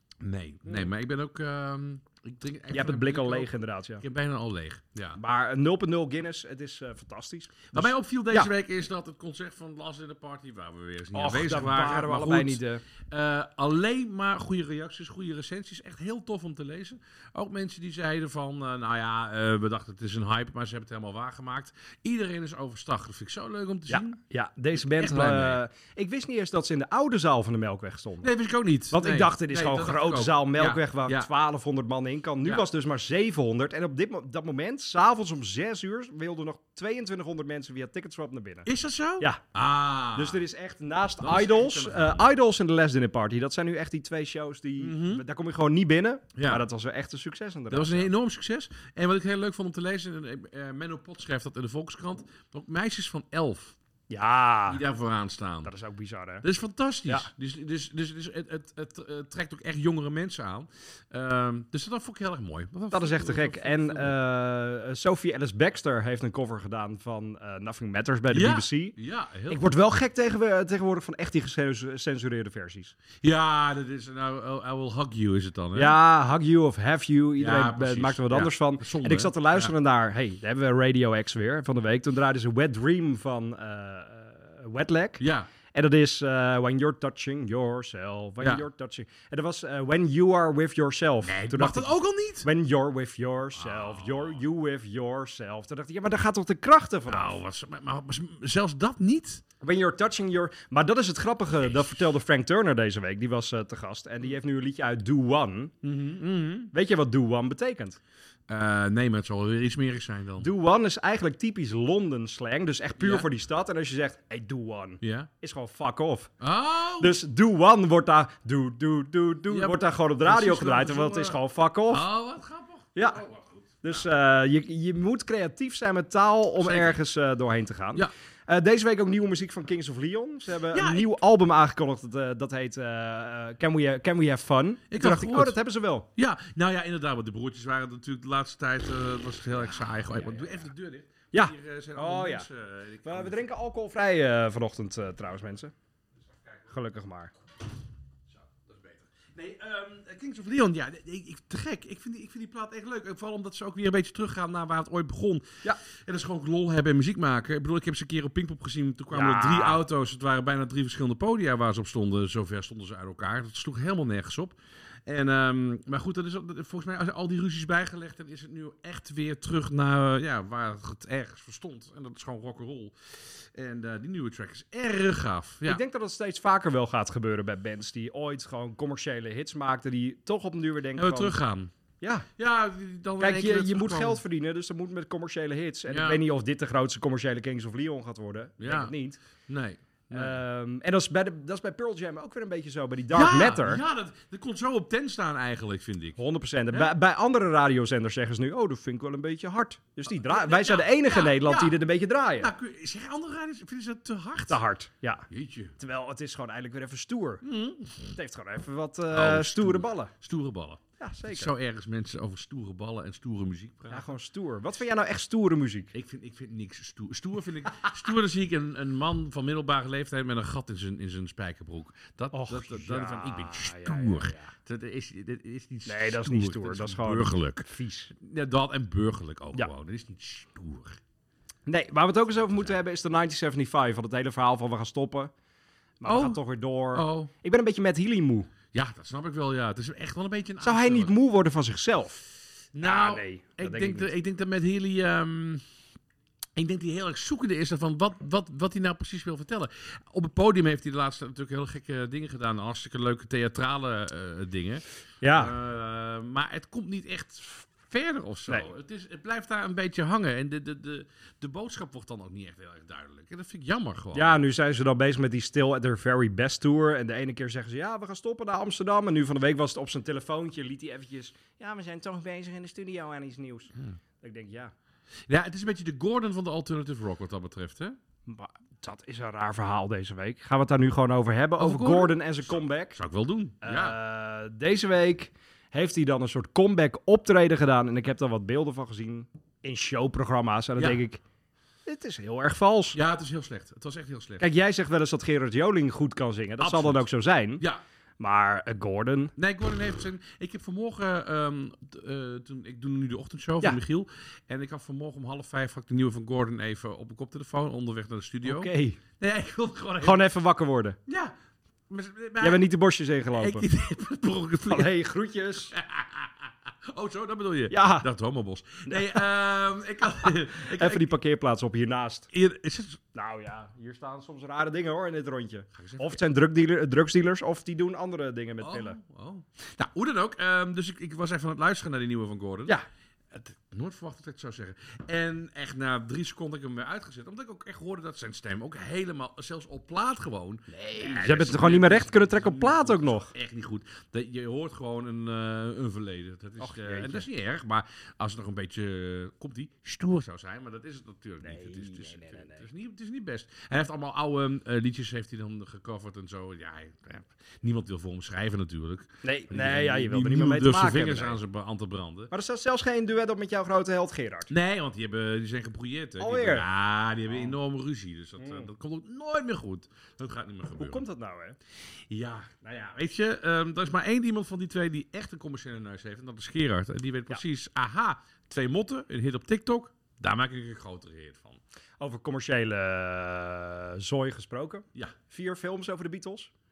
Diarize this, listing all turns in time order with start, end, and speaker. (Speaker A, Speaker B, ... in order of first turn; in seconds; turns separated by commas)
Speaker A: 0.2-5.2, Speaker B: 2.7-4.0, Speaker B: 5.2-8.5, Speaker A: 7.7-24.2, Speaker B: 11.1-12.8, Speaker B: 23.9-28.3, Speaker A: 24.8-25.6, Speaker A: 28.2-31.3, Speaker B: 28.9-38.7, Speaker A: 38.7-40.4, Speaker B: 40.1-48.1, Speaker A: 41.2-42.3, Speaker A: 44.8-45.2, Speaker A: 46.4-46.6, Speaker A: 47.7-53.8, Speaker B: 54.1-54.8, Speaker A: 54.7-55.7, Speaker B: 55.6-56.5, Speaker A: 56.4-64.2, Speaker B: 62.9-69.0, Speaker A: 68.3-69.8, Speaker B: 69.5-73.0, Speaker A: 73.2-76.0, Speaker B: 75.7-97.4, Speaker A: 77.4-79.7, Speaker A: 85.2-85.5, Speaker A: 91.2-92.5, Speaker A: 93.6-94.4, Speaker A: 97.1-99.4, Speaker B: 99.6-105.7, Speaker A: 101.6-102.0, Speaker A: 105.8-106.7, Speaker B: 106.7-108.0, Speaker A: 108.5-110.5, Speaker B: 110.4-116.3, Speaker A: 113.0-113.3, Speaker A: 115.0-115.3, Speaker A: 116.4-117.2, Speaker B: 117.0-122.1, Speaker A: 119.5-124.1, Speaker B: 123.0-123.2, Speaker B: 123.8-136.1, Speaker A: 126.6-127.0, Speaker A: 130.7-131.2, Speaker A: 134.9-135.6, Speaker A: 136.2-143.5, Speaker B: 140.2-140.5, Speaker B: 141.3-142.5, Speaker B: 143.0-145.7, Speaker B: 146.7-147.3, Speaker A: 148.4-164.6, Speaker B: 159.1-159.8, Speaker A: 165.1-175.8, Speaker B: 175.7-181.4, Speaker A: 181.0-181.7, Speaker B: 182.0-182.3, Speaker A: 182.4-184.2, Speaker B: 183.2-189.2, Speaker A: 185.9-186.2, Speaker A: 188.6-188.9, Speaker A: 189.5-190.4, Speaker B: 190.1-193.8, Speaker A: 193.1-196.2, Speaker B: 196.2-202.5, Speaker A: 200.1-201.8, Speaker A: 202.4-204.6, Speaker B: 204.5-205.3, Speaker A: 205.3-205.8, Speaker B: 205.8-207.4, Speaker A: 207.4-208.1, Speaker B: 208.1-210.1, Speaker A: 209.1-214.1, Speaker B: 211.0-211.5, Speaker B: 213.9-215.9, Speaker A: 215.9-227.7, Speaker B: 222.3-224.5, Speaker B: 225.9-228.1, Speaker A: 228.2-231.0, Speaker B: 231.7-235.3, Speaker B: 236.0-238.5, Speaker A: 236.1-236.4, Speaker A: 236.9-237.3, Speaker A: 238.7-241.1, Speaker B: 240.6-242.2, Speaker A: 242.8-245.6, Speaker B: 242.8-244.1, Speaker A: 246.6-264.4, Speaker B: 255.2-255.5, Speaker B: 264.1-274.7, Speaker A: 275.3-278.0, Speaker B: 278.3-283.0, Speaker A: 281.6-284.0, Speaker B: 283.6-291.2, Speaker B: 291.9-293.0, Speaker A: 292.9-294.4, Speaker B: 294.4-297.6, Speaker A: 296.6-297.1, Speaker B: 298.2-299.3, Speaker A: 299.4-310.3, Speaker B: 308.4-309.0, Speaker B: 310.0-311.0, Speaker A: 311.1-311.3, Speaker A: 311.9-312.6, Speaker B: 312.4-313.7, Speaker A: 313.3-315.0, Speaker B: 314.7-315.7, Speaker A: 315.7-321.2, Speaker B: 317.7-318.1, Speaker B: 318.9-319.3, Speaker B: 320.3-322.3, Speaker A: 322.3-323.0, Speaker B: 323.1-329.0, Speaker A: 325.8-326.2, Speaker A: 328.6-332.8, Speaker A: 333.3-362.3, Speaker B: 340.9-343.3, Speaker B: 346.6-347.3, Speaker B: 351.4-352.6, Speaker B: 359.2-361.4, Speaker B: 362.3-364.5, Speaker A: 364.5-371.1, Speaker B: 366.2-366.7, Speaker B: 367.3-367.5, Speaker B: 368.4-368.7, Speaker B: 370.8-371.6, Speaker A: 372.1-381.6, Speaker B: 382.0-386.5